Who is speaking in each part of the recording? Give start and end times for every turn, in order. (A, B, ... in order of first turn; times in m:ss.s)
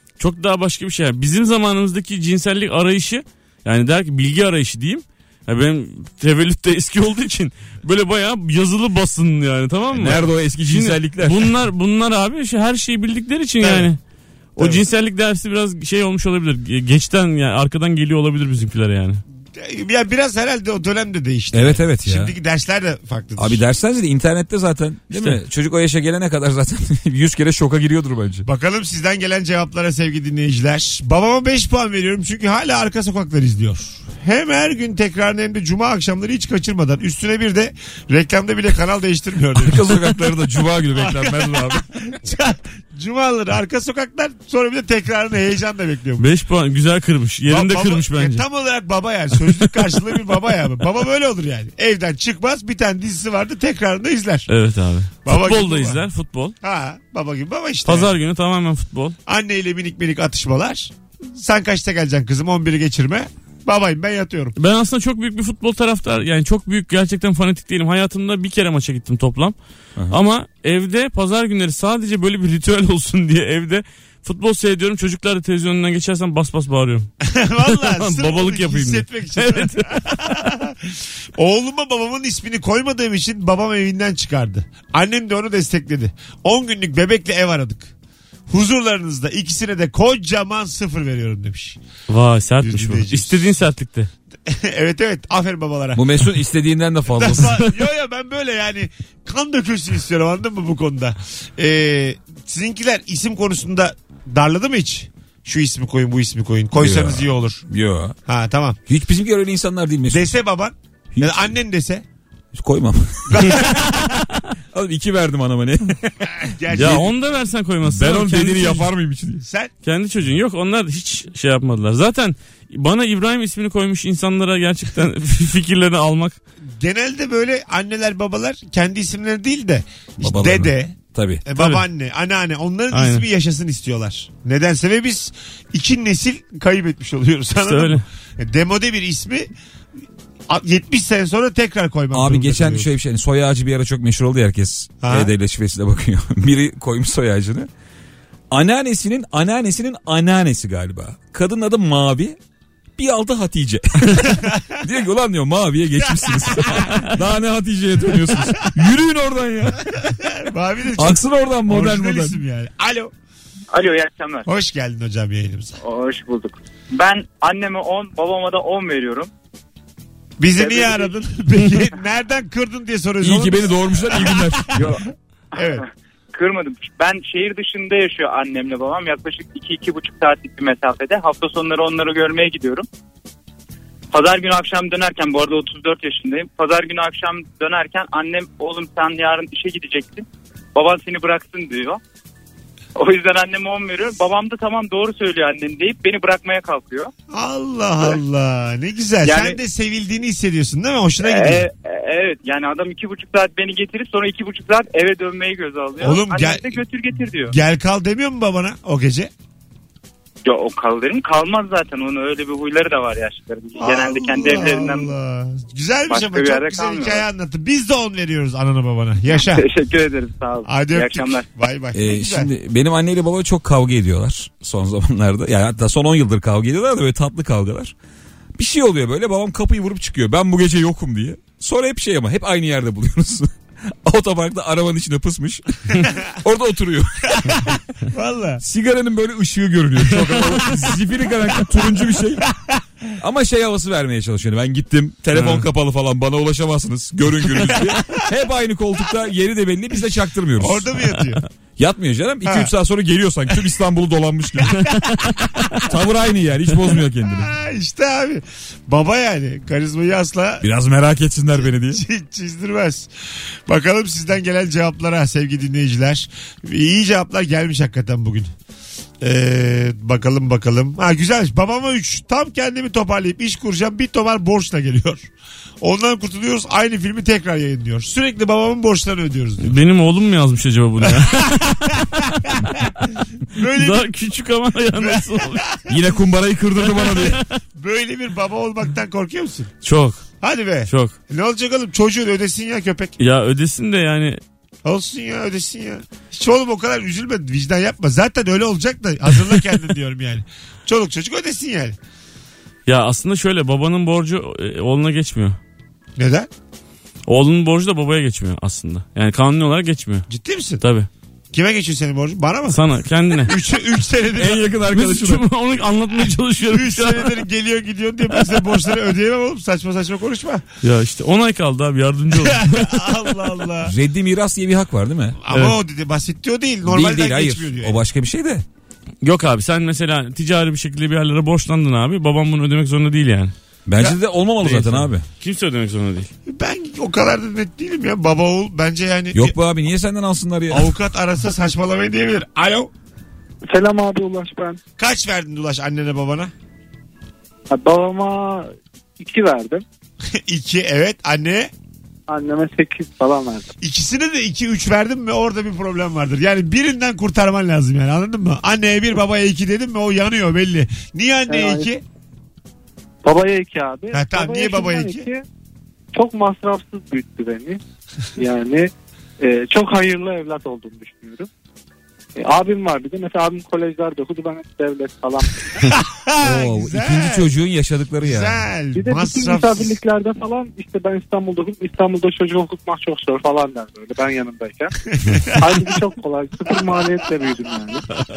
0:00.2-0:14.0 A
0:09.9-0:11.5 B
0:13.6-0:13.9 C
0:14.6-0:14.8 C
0:14.6-0:19.2 A
0:19.6-0:23.6 C
0:21.5-0:22.3 B
0:23.4-0:28.4 B
0:25.1-0:25.4 A
0:28.4-0:40.3 C
0:39.6-0:42.1 B
0:40.9-0:46.3 C
0:46.2-0:48.4 A
0:47.5-0:54.5 C
0:54.5-0:56.5 A
0:55.2-0:56.0 C
0:56.6-0:58.1 C
0:57.8-0:59.2 A
0:59.3-1:04.6 C
1:04.6-1:09.6 A
1:10.1-1:17.1 A
1:17.2-1:27.9 C
1:17.6-1:20.5 A
1:28.5-1:31.8 C
1:32.1-1:34.1 A
1:32.6-1:33.6 C
1:34.5-1:36.1 C
1:35.9-1:37.6 B
1:37.1-1:47.6 C
1:46.8-1:48.2 B
1:48.2-1:48.8 C
1:48.9-1:50.3 B
1:50.1-1:52.0 C
1:51.1-1:51.6 B
1:52.5-1:53.8 B
1:53.3-1:54.1 C
1:54.7-1:56.1 B
1:56.4-1:57.1 C
1:56.6-1:57.1 B
1:56.7-1:58.9 A
1:57.8-1:59.4 B
1:59.4-1:59.7 C
1:59.8-2:06.4 A
2:06.8-2:19.5 C
2:10.2-2:11.4 B
2:11.6-2:11.8 A
2:12.9-2:13.2 A
2:17.6-2:18.0 A
2:20.5-2:22.9 C
2:22.1-2:27.7 B
2:25.0-2:25.3 C
2:28.5-2:32.4 B
2:33.0-2:39.8 B
2:34.2-2:34.8 C
2:36.0-2:37.1 C
2:40.0-2:43.1 C
2:41.0-2:42.4 B
2:43.7-2:44.5 D
2:44.4-2:45.8 C
2:45.8-2:49.3 D
2:50.4-2:55.0 C
2:50.5-2:51.1 D
2:53.2-2:55.0 B
2:55.5-2:55.8 C
2:55.6-3:02.8 D
3:04.1-3:12.0 D
3:13.0-3:17.1 D
3:17.3-3:21.7 C
3:19.2-3:19.6 D
3:21.2-3:27.6 D
3:26.0-3:26.8 C
3:27.4-3:29.3 C
3:30.4-3:35.1 D
3:33.8-3:39.6 C
3:36.1-3:37.3 D
3:39.3-3:41.5 D
3:40.6-3:42.5 C
3:41.9-3:47.9 B
3:48.6-3:57.7 B
3:57.3-3:58.6 C
3:58.6-4:02.5 B
4:00.2-4:00.9 C
4:02.5-4:03.1 C
4:03.2-4:10.9 B
4:05.3-4:05.6 A
4:07.7-4:08.0 C
4:10.6-4:11.4 C
4:11.8-4:14.9 B
4:12.4-4:12.7 C
4:14.6-4:15.8 C
4:15.8-4:17.5 B
4:17.2-4:20.6 C
4:20.6-4:22.0 B
4:21.6-4:23.1 C
4:23.7-4:28.5 C
4:29.2-4:35.3 C
4:35.8-4:39.7 C
4:39.6-4:42.0 A
4:41.2-4:42.9 C
4:43.5-4:44.1 C
4:43.6-4:45.6 A
4:45.0-4:45.9 C
4:45.9-4:47.4 B
4:47.0-4:47.4 A
4:47.8-4:49.7 C
4:49.8-4:50.2 A
4:50.4-4:53.1 C
4:50.9-4:51.1 A
4:53.2-4:54.4 A
4:54.8-5:02.0 C
5:02.9-5:05.6 A
5:06.2-5:06.5 C
5:07.3-5:10.3 A
5:10.3-5:10.8 C
5:10.8-5:11.1 A
5:11.5-5:12.8 C
5:12.7-5:13.5 A
5:13.4-5:14.7 C
5:14.4-5:15.4 B
5:14.9-5:17.4 A
5:16.7-5:20.6 C
5:20.8-5:23.5 A
5:22.4-5:23.9 C
5:23.8-5:25.4 B
5:25.4-5:28.0 C
5:25.5-5:25.8 A
5:26.8-5:28.6 B
5:29.2-5:33.5 A
5:33.8-5:35.2 B
5:34.6-5:36.3 A
5:36.5-5:39.6 C
5:39.3-5:40.9 B
5:40.7-5:42.9 C
5:43.6-5:44.8 E
5:45.0-5:46.5 C
5:47.7-5:49.8 E
5:50.3-5:51.7 C
5:52.3-5:53.7 E
5:53.8-6:02.0 C
6:01.5-6:01.9 E
6:03.2-6:05.4 E
6:04.1-6:05.3 C
6:06.1-6:07.8 E
6:08.4-6:11.5 E
6:12.4-6:15.6 E
6:15.8-6:17.4 C
6:16.4-6:18.6 B
6:18.2-6:19.9 C
6:18.9-6:24.9 E
6:25.1-6:25.6 C
6:25.6-6:28.0 E